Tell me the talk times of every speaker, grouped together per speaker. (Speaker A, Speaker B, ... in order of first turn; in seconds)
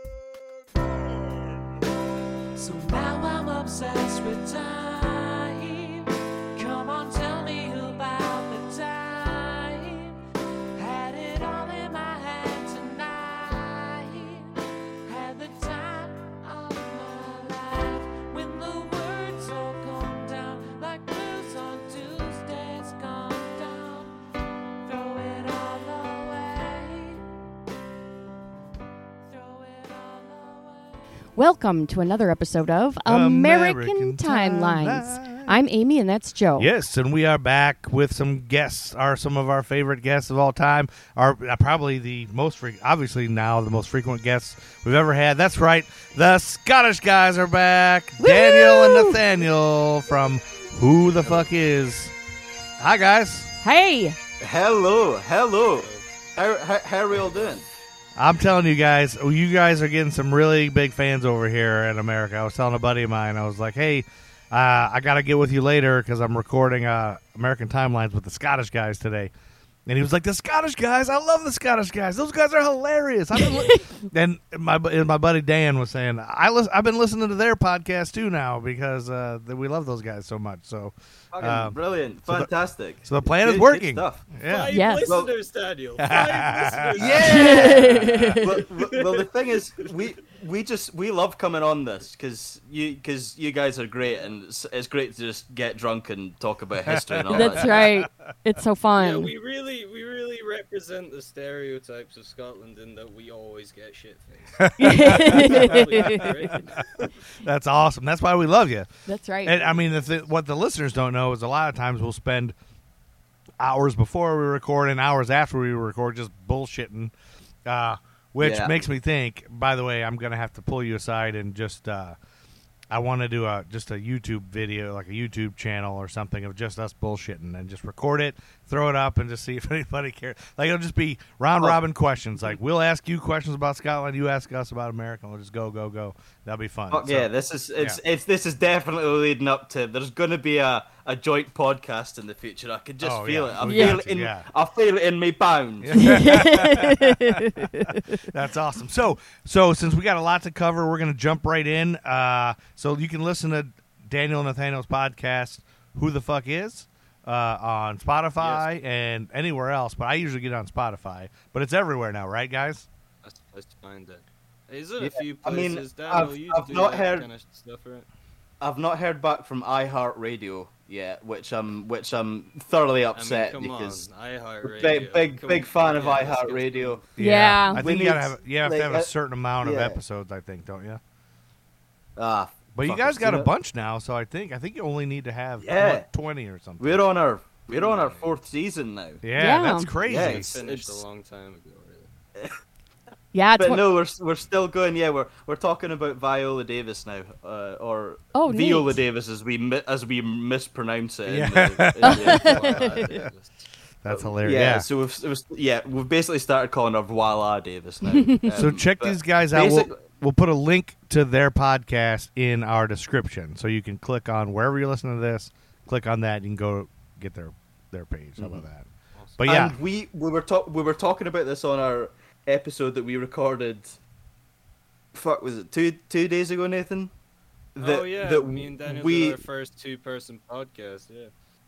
Speaker A: 2.6-10.2, 10.8-14.5, 15.1-24.1, 24.9-27.2, 29.3-31.0
Speaker B: 31.4-36.7, 48.2-49.2, 53.6-54.2, 73.4-73.8, 84.7-85.1, 87.3-88.5, 97.3-99.3, 104.8-106.2, 109.1-109.6, 143.6-144.0, 146.0-148.2, 177.2-177.8, 189.4-189.9, 193.3-193.8, 198.3-199.0, 202.1-202.9, 208.1-208.4
Speaker C: 33.1-35.6, 36.6-52.1, 52.8-53.5, 58.2-69.3, 69.9-82.5, 83.0-84.7, 86.0-87.4, 96.9-98.0, 104.7-108.9, 109.4-112.5, 113.6-117.1, 117.7-122.2, 122.9-138.0, 143.0-144.5, 145.8-162.9, 177.2-181.0, 182.8-187.0, 189.2-190.5, 201.3-202.4, 204.0-204.9, 208.5-218.9, 219.4-219.8
Speaker D: 51.2-51.5, 57.1-57.6, 84.5-89.3, 94.0-94.3, 99.0-107.0, 158.4-158.7, 163.2-168.1, 173.2-177.1, 187.7-188.3, 190.0-192.1, 202.1-203.7, 219.2-219.4, 227.8-231.3
Speaker E: 54.4-57.7, 81.3-84.2, 85.1-85.3, 86.9-97.9, 118.4-118.8, 136.9-146.2, 165.0-167.3, 168.6-174.1, 174.6-177.0, 177.7-179.1, 179.6-180.0, 182.2-183.5, 185.6-186.1, 186.8-189.2, 190.1-191.0, 193.6-202.9, 204.1-210.0, 218.4-218.7, 219.4-224.0, 225.1-227.1, 227.8-229.4